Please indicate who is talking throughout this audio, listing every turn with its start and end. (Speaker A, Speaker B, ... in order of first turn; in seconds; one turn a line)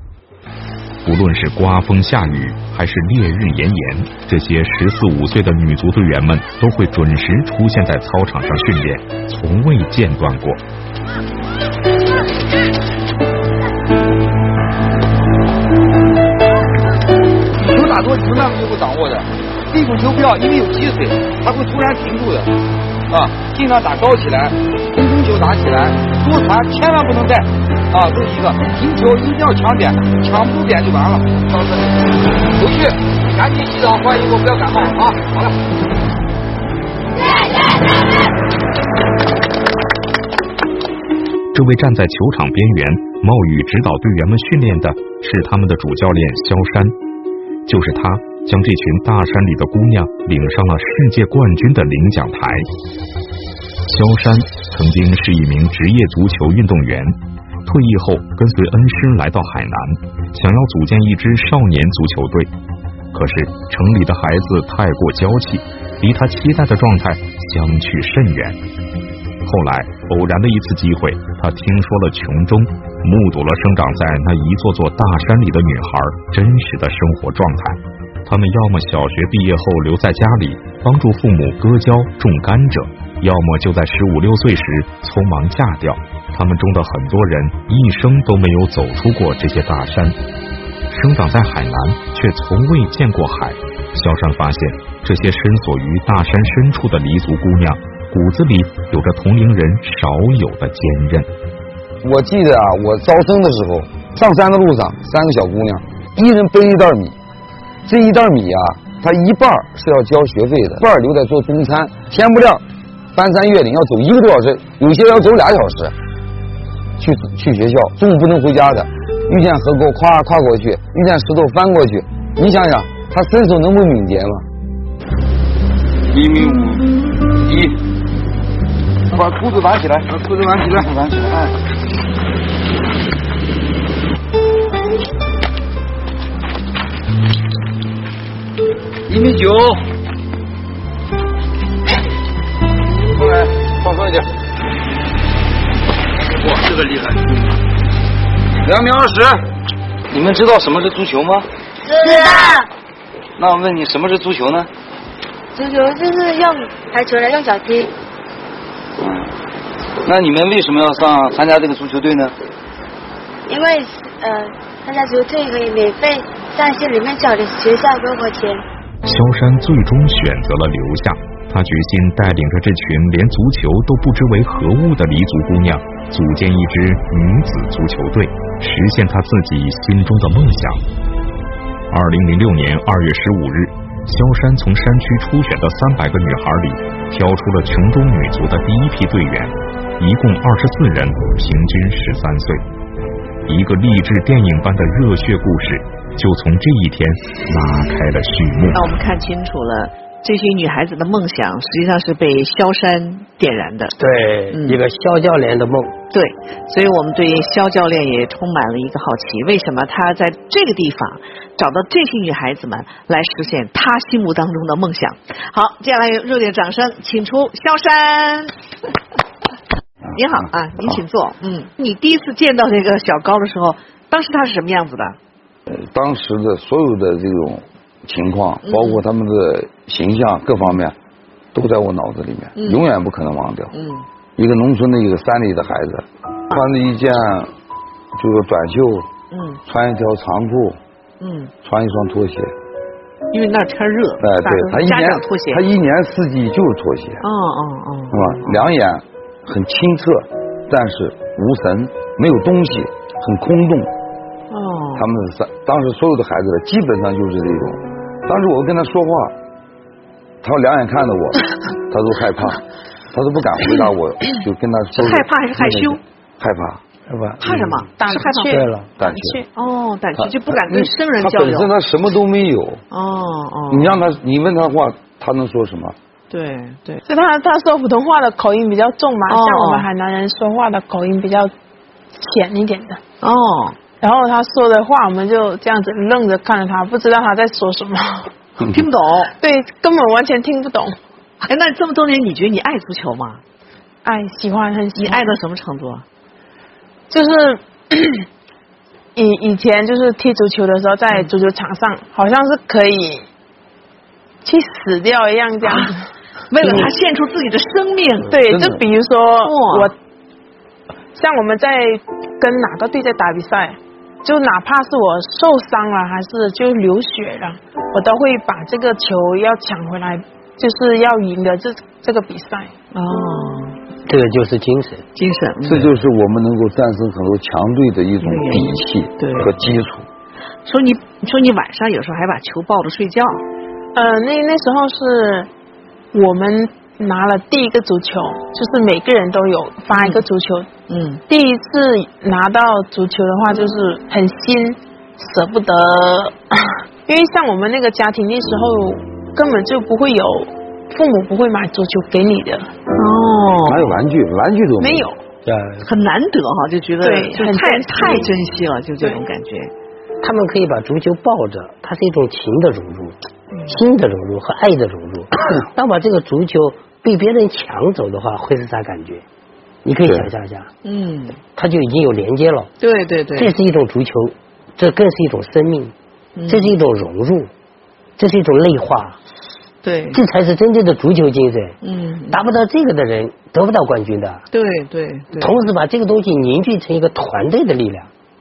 Speaker A: 1.0-10.6
Speaker B: 17.6-22.6
Speaker B: 23.1-35.6
Speaker A: 41.5-47.0
Speaker A: 47.7-52.7
Speaker A: 53.9-62.5
Speaker A: 63.1-68.6
Speaker A: 69.5-90.2
Speaker A: 90.9-101.3
Speaker B: 102.0-107.2
Speaker B: 107.9-112.6
Speaker B: 113.1-115.9
Speaker B: 117.0-124.4
Speaker B: 126.1-127.8
Speaker B: 129.1-131.6
Speaker B: 139.1-139.8
Speaker B: 143.1-144.3
Speaker B: 146.3-147.5
Speaker B: 148.6-149.4
Speaker B: 150.1-151.5
Speaker C: 151.9-152.6
Speaker B: 153.4-154.7
Speaker C: 155.6-157.9
Speaker B: 159.0-159.3
Speaker B: 160.1-162.3
Speaker C: 163.5-168.6
Speaker A: 169.1-180.8
Speaker A: 181.9-192.6
Speaker A: 193.5-198.8
Speaker D: 198.7-204.0
Speaker E: 204.0-205.9
Speaker D: 204.5-204.8
Speaker D: 206.1-218.5
Speaker B: 220.1-221.0
Speaker D: 220.1-225.2
Speaker B: 225.7-230.9
Speaker D: 228.7-229.0
Speaker B: 231.5-233.7
Speaker D: 232.6-232.8
Speaker D: 233.7-234.1
Speaker B: 234.4-237.5
Speaker B: 238.2-239.1
Speaker D: 239.3-239.6
Speaker B: 239.7-240.8
Speaker D: 241.2-241.5
Speaker B: 241.6-242.5
Speaker D: 243.3-245.6
Speaker B: 244.2-247.2
Speaker D: 247.2-248.7
Speaker B: 248.1-253.9
Speaker D: 254.5-255.1
Speaker B: 255.0-259.4
Speaker B: 260.4-262.6
Speaker B: 263.1-266.8
Speaker D: 264.9-266.0
Speaker E: 267.1-267.9
Speaker D: 267.4-268.7
Speaker F: 268.0-269.5
Speaker E: 268.5-268.9
Speaker B: 269.0-269.4
Speaker D: 269.6-271.7
Speaker B: 270.2-272.8
Speaker D: 272.9-274.1
Speaker B: 273.7-276.0
Speaker D: 276.3-277.0
Speaker F: 277.1-281.5
Speaker D: 279.3-279.9
Speaker F: 282.2-283.0
Speaker D: 283.2-283.8
Speaker F: 284.0-288.3
Speaker D: 288.7-289.3
Speaker F: 289.4-291.0
Speaker D: 291.5-293.4
Speaker F: 294.0-295.3
Speaker D: 295.0-296.1
Speaker F: 297.1-298.2
Speaker F: 299.1-303.2
Speaker F: 304.4-306.1
Speaker D: 305.6-305.9
Speaker D: 306.5-308.4
Speaker F: 308.3-309.9
Speaker B: 308.5-308.8
Speaker D: 309.4-309.9
Speaker F: 311.1-322.7
Speaker D: 322.9-323.8
Speaker E: 324.1-325.1
Speaker D: 325.2-325.9
Speaker B: 325.6-330.1
Speaker D: 328.2-329.7
Speaker D: 330.7-333.4
Speaker F: 333.9-335.5
Speaker F: 336.1-340.7
Speaker D: 339.9-340.2
Speaker D: 340.9-341.2
Speaker F: 341.3-352.7
Speaker D: 353.0-354.0
Speaker B: 353.7-355.1
Speaker F: 354.8-355.2
Speaker E: 355.4-355.9
Speaker D: 355.8-359.7
Speaker F: 357.0-358.3
Speaker E: 360.2-363.2
Speaker D: 363.5-363.8
Speaker E: 363.7-369.2
Speaker E: 369.9-370.7
Speaker D: 370.8-371.4
Speaker E: 371.6-372.7
Speaker D: 372.8-373.5
Speaker E: 373.4-375.9
Speaker D: 376.4-376.7
Speaker E: 376.5-377.5
Speaker E: 378.2-379.2
Speaker D: 379.8-380.2
Speaker E: 380.1-381.8
Speaker D: 381.8-382.4
Speaker E: 382.3-384.4
Speaker D: 384.5-385.6
Speaker E: 385.3-388.1